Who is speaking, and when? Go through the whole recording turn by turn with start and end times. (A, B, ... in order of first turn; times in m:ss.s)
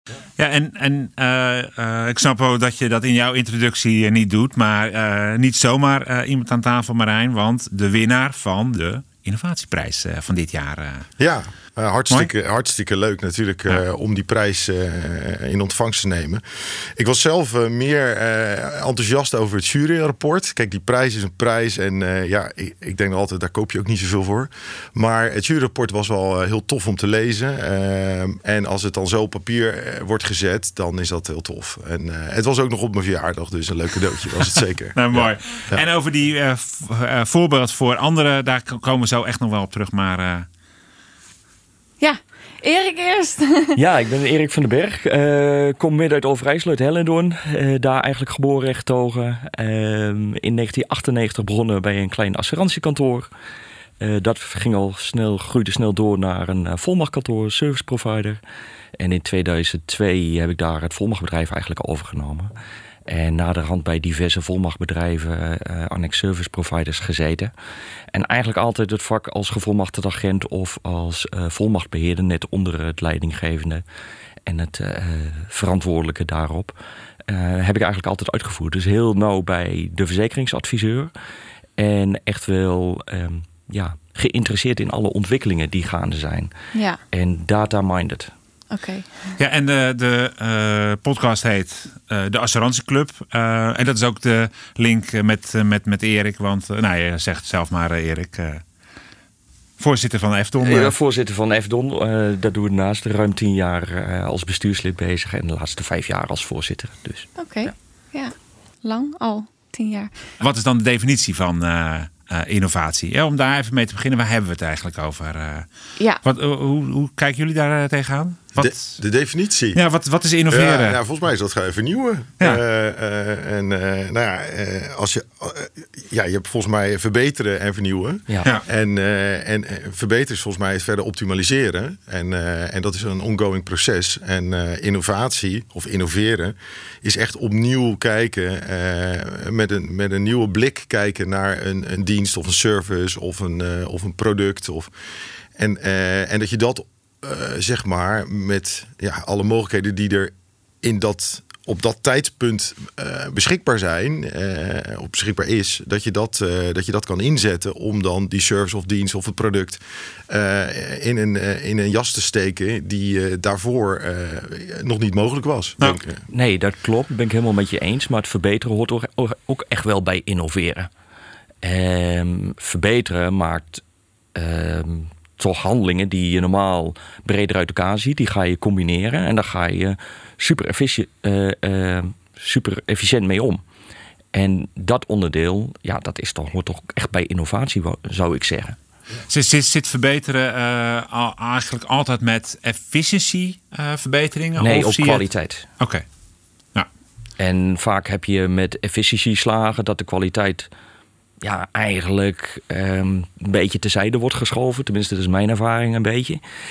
0:00.4-0:11.1 A
0:11.2-0:35.8 B
0:34.9-0:40.5 A
0:42.0-0:43.8 C
0:43.8-0:53.3 D
0:54.0-0:58.4 D
0:59.0-1:02.5 D
1:03.1-1:07.5 D
1:08.1-1:13.8 D
1:14.4-1:16.8 D
1:17.3-1:21.1 D
1:21.8-1:26.5 D
1:26.7-1:27.0 C
1:27.1-1:28.3 D
1:28.7-1:29.4 C
1:29.4-1:38.6 A
1:39.8-1:40.9 A
1:40.6-1:47.7 D
1:47.4-1:50.1 C
1:50.4-1:55.7 A
1:56.2-1:59.0 A
1:58.6-1:59.8 B
1:59.7-2:01.0 A
2:00.5-2:24.9 B
2:25.6-2:46.2 B
2:46.3-2:50.9 D
2:51.6-2:53.8 D
2:54.4-3:03.6 D
3:04.3-3:08.8 D
3:09.3-3:15.3 A
3:14.6-3:15.6 D
3:15.8-3:16.0 A
3:17.4-3:20.7 D
3:21.4-3:26.4 D